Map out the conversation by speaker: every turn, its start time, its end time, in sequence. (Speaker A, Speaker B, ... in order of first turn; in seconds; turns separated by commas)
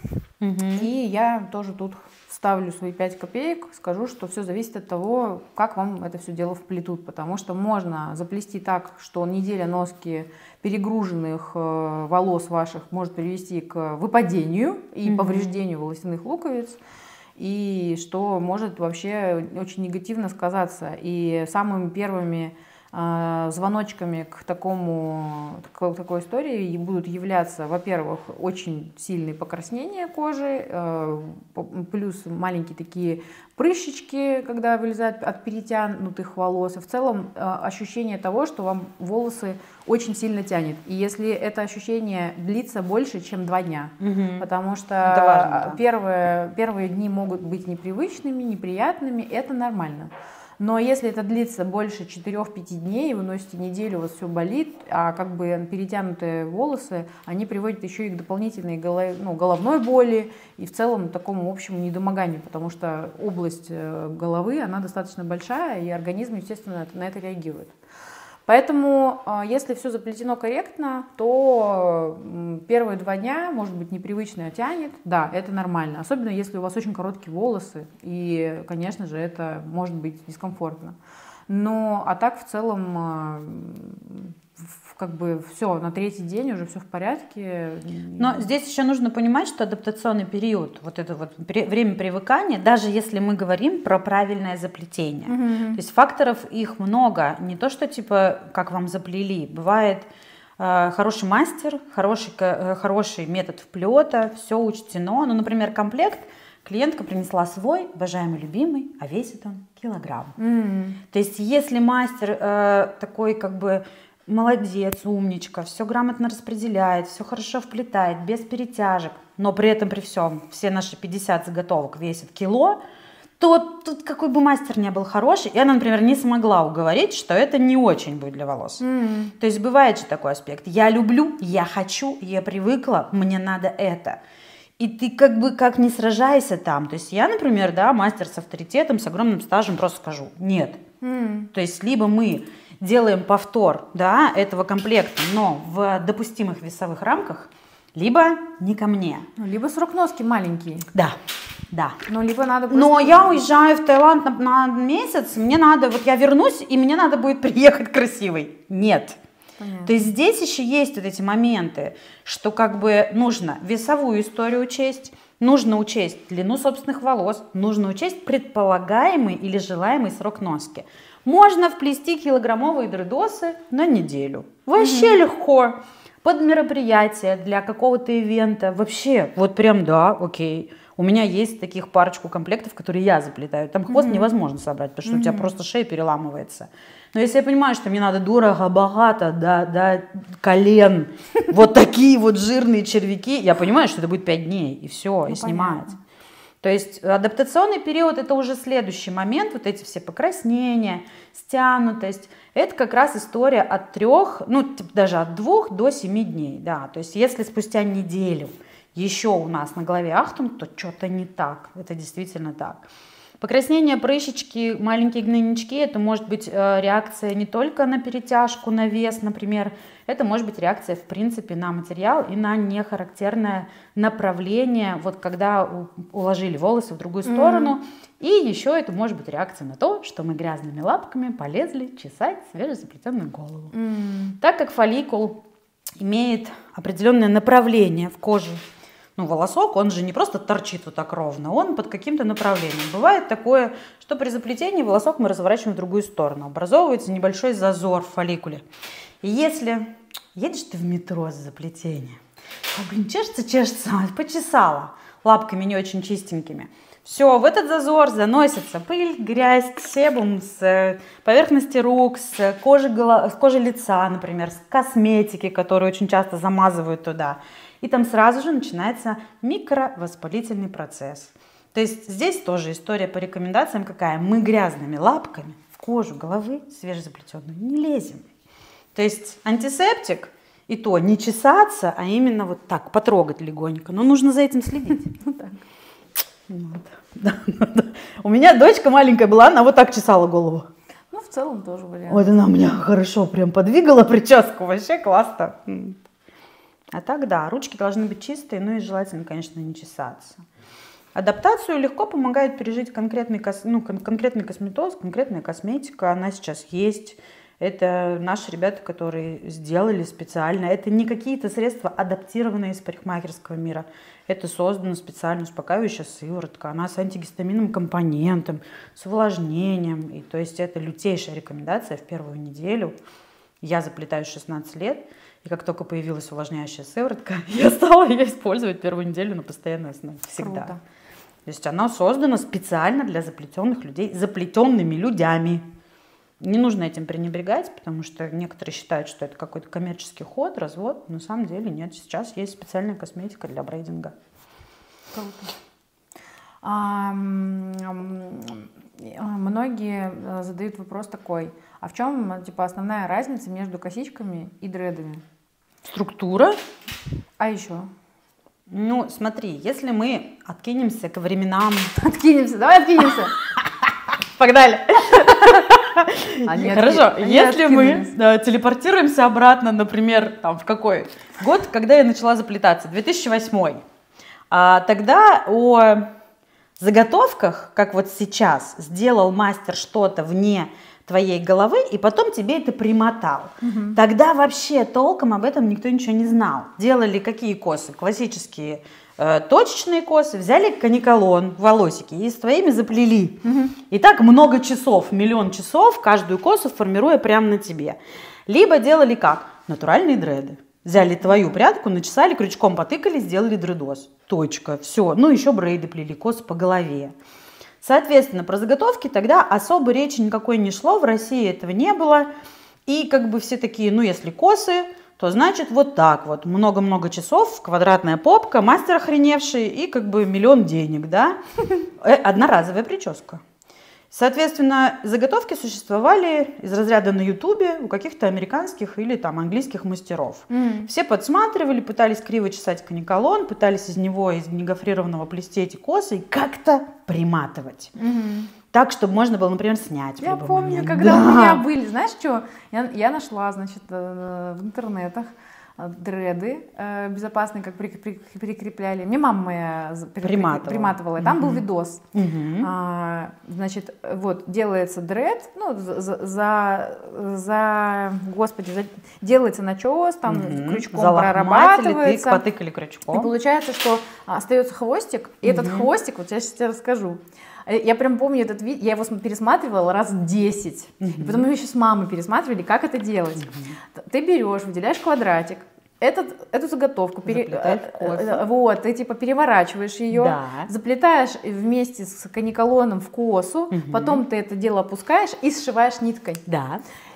Speaker A: 0.4-0.9, Speaker B: 0.8-16.8, Speaker A: 15.1-15.6, Speaker B: 17.4-67.8, Speaker A: 44.0-44.5, Speaker A: 45.0-45.8, Speaker B: 68.5-81.0, Speaker B: 81.5-88.5, Speaker A: 88.2-100.1, Speaker B: 95.3-95.8, Speaker A: 100.6-110.4, Speaker B: 110.4-111.0, Speaker A: 111.1-122.8, Speaker A: 123.4-128.8, Speaker B: 128.8-129.3, Speaker A: 129.4-134.2, Speaker A: 134.8-140.8, Speaker B: 141.0-141.5, Speaker A: 141.5-149.3, Speaker B: 149.4-150.9, Speaker A: 151.7-152.0, Speaker B: 152.1-153.4, Speaker A: 152.7-159.2, Speaker B: 159.6-160.1, Speaker A: 159.8-195.9, Speaker B: 174.8-175.2, Speaker B: 183.9-184.3, Speaker B: 185.1-185.5, Speaker B: 195.3-196.0, Speaker A: 196.6-212.8, Speaker A: 213.4-233.7, Speaker B: 227.2-227.8, Speaker B: 233.7-234.4, Speaker A: 234.4-235.4, Speaker A: 236.0-238.6, Speaker A: 239.2-248.6, Speaker A: 249.2-278.3, Speaker A: 278.9-285.1, Speaker B: 285.2-285.6, Speaker A: 286.5-290.7, Speaker B: 291.1-292.3, Speaker A: 292.1-296.0, Speaker A: 296.9-300.4, Speaker A: 301.1-322.9, Speaker A: 323.6-330.7, Speaker B: 330.3-330.8, Speaker A: 331.5-335.6, Speaker A: 336.4-344.1, Speaker B: 345.1-345.5, Speaker B: 346.6-355.2, Speaker A: 355.9-356.6, Speaker B: 357.4-357.9, Speaker A: 358.7-361.9, Speaker B: 362.0-363.4, Speaker A: 363.6-373.8, Speaker B: 366.4-368.1, Speaker A: 374.5-376.1, Speaker A: 376.8-407.1, Speaker B: 383.6-384.0, Speaker B: 393.4-393.8, Speaker B: 401.2-401.6, Speaker A: 407.8-412.3, Speaker A: 412.9-421.4, Speaker A: 422.0-423.4, Speaker A: 424.1-437.9, Speaker B: 430.5-430.9, Speaker B: 438.0-438.5, Speaker A: 438.7-441.6, Speaker B: 440.2-452.0, Speaker A: 450.2-451.6, Speaker A: 452.1-452.7, Speaker B: 452.6-462.4, Speaker A: 460.3-463.3, Speaker B: 463.1-486.4, Speaker A: 465.4-465.9, Speaker A: 471.0-471.4, Speaker A: 473.4-473.8, Speaker A: 477.2-478.4, Speaker A: 480.1-480.7, Speaker A: 483.7-484.2, Speaker A: 486.5-486.8